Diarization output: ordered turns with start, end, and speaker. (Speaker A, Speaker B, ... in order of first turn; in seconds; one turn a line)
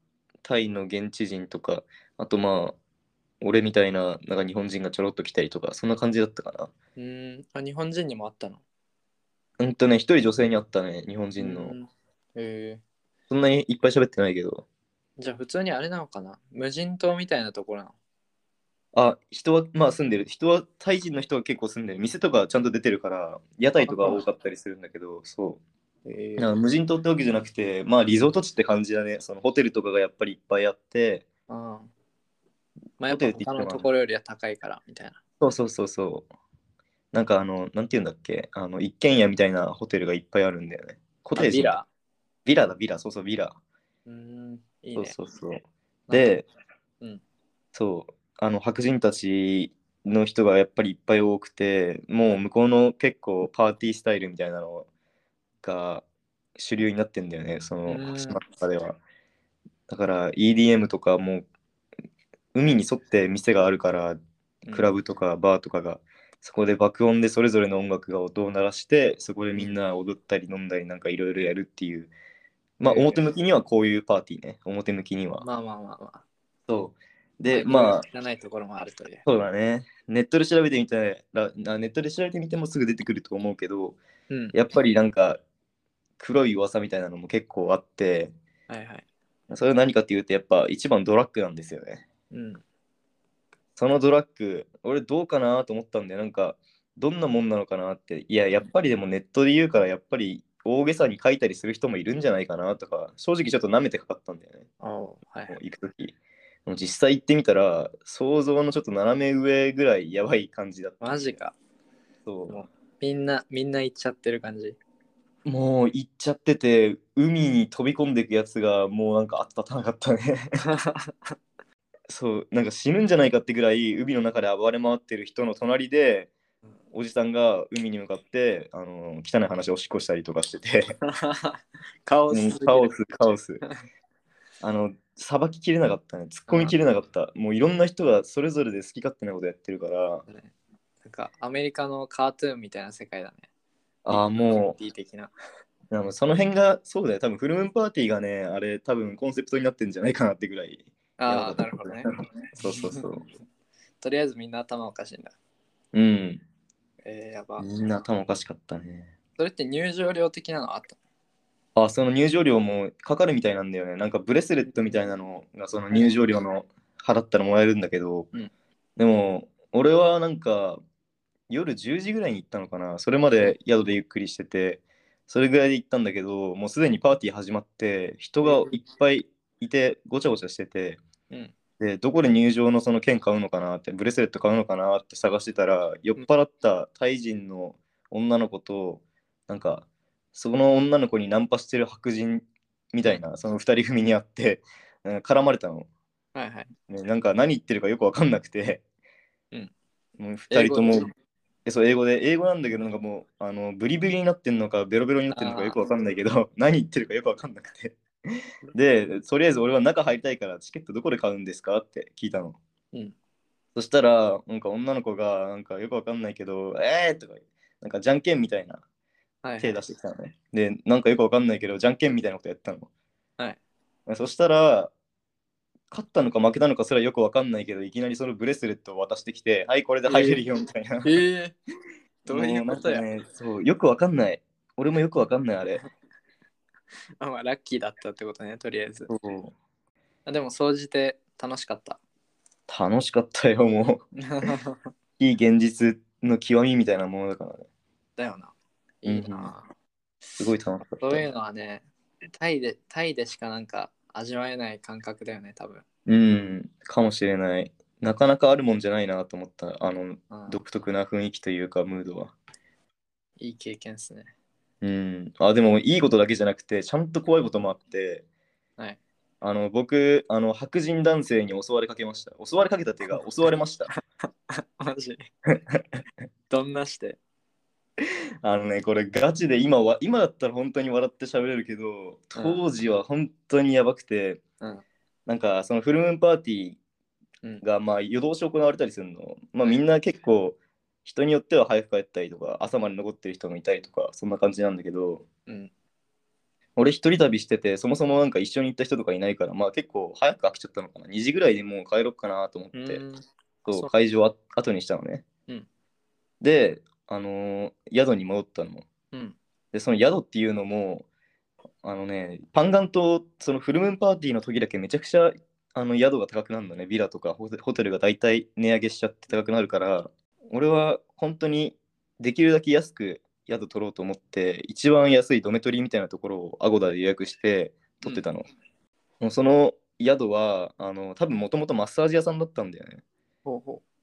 Speaker A: 0.4-2.8
Speaker A: 3.4-6.7
Speaker B: 7.0-8.6
Speaker A: 9.6-11.7
Speaker B: 11.4-12.8
Speaker A: 13.3-14.7
Speaker B: 15.2-17.9
Speaker A: 18.9-25.6
Speaker B: 23.8-24.2
Speaker B: 26.0-26.5
Speaker A: 26.4-31.2
Speaker B: 31.5-31.9
Speaker B: 33.0-35.2
Speaker A: 33.1-33.9
Speaker A: 35.4-36.3
Speaker A: 37.1-41.8
Speaker B: 41.4-41.9
Speaker A: 42.4-43.6
Speaker B: 44.0-45.1
Speaker A: 44.9-46.5
Speaker B: 46.1-46.4
Speaker A: 47.7-54.9
Speaker A: 55.6-56.0
Speaker A: 56.5-59.0
Speaker B: 57.9-58.4
Speaker A: 59.9-61.5
Speaker A: 62.5-64.2
Speaker B: 64.6-64.9
Speaker A: 64.7-72.1
Speaker A: 72.8-75.5
Speaker B: 72.8-73.2
Speaker B: 75.4-76.2
Speaker A: 76.7-78.0
Speaker B: 77.5-79.2
Speaker A: 79.2-84.0
Speaker B: 84.3-84.5
Speaker A: 84.5-85.4
Speaker A: 86.2-88.3
Speaker B: 88.7-89.0
Speaker A: 89.5-92.0
Speaker B: 92.3-92.6
Speaker A: 93.8-104.7
Speaker B: 104.8-105.6
Speaker A: 105.5-106.1
Speaker A: 106.7-111.4
Speaker B: 111.0-111.5
Speaker A: 112.2-112.6
Speaker B: 112.5-114.8
Speaker A: 115.4-120.5
Speaker B: 120.6-121.3
Speaker A: 122.1-126.3
Speaker A: 126.9-130.9
Speaker B: 131.0-132.9
Speaker A: 132.3-133.6
Speaker A: 134.6-140.2
Speaker B: 136.5-136.8
Speaker B: 141.0-143.4
Speaker A: 144.0-144.8
Speaker B: 144.5-145.3
Speaker A: 145.9-153.2
Speaker B: 151.2-153.1
Speaker B: 154.0-155.3
Speaker A: 155.9-156.4
Speaker B: 157.0-157.7
Speaker A: 157.6-159.1
Speaker B: 159.4-161.0
Speaker A: 161.8-168.3
Speaker A: 169.0-170.8
Speaker A: 171.5-181.0
Speaker B: 178.4-178.8
Speaker A: 181.8-195.9
Speaker B: 196.3-196.7
Speaker A: 196.9-198.8
Speaker A: 200.2-201.1
Speaker B: 200.5-201.1
Speaker A: 201.6-208.0
Speaker B: 205.3-205.8
Speaker A: 208.7-212.6
Speaker A: 213.7-218.8
Speaker B: 219.4-219.8
Speaker A: 219.6-222.9
Speaker A: 224.1-224.9
Speaker A: 225.9-231.2
Speaker B: 230.1-230.4
Speaker B: 231.0-231.5
Speaker B: 232.2-233.0
Speaker A: 232.3-235.8
Speaker B: 237.2-239.1
Speaker A: 239.1-239.5
Speaker B: 240.2-242.0
Speaker A: 242.7-244.4
Speaker B: 244.2-244.9
Speaker A: 245.2-247.7
Speaker B: 248.2-249.7
Speaker A: 249.0-249.5
Speaker A: 250.4-251.2
Speaker B: 250.9-255.8
Speaker A: 256.1-262.3
Speaker B: 260.3-260.6
Speaker B: 263.4-264.3
Speaker A: 264.8-268.2
Speaker A: 269.4-273.9
Speaker B: 273.9-275.3
Speaker A: 275.5-276.0
Speaker B: 276.5-277.2
Speaker A: 278.4-284.4
Speaker B: 282.3-282.6
Speaker A: 285.3-286.8
Speaker A: 287.6-295.2
Speaker A: 296.8-303.0
Speaker B: 302.7-303.9
Speaker A: 303.6-305.2
Speaker A: 306.4-308.9
Speaker B: 309.1-309.4
Speaker A: 309.7-311.1
Speaker A: 311.8-328.4
Speaker A: 329.2-333.0
Speaker B: 333.4-333.8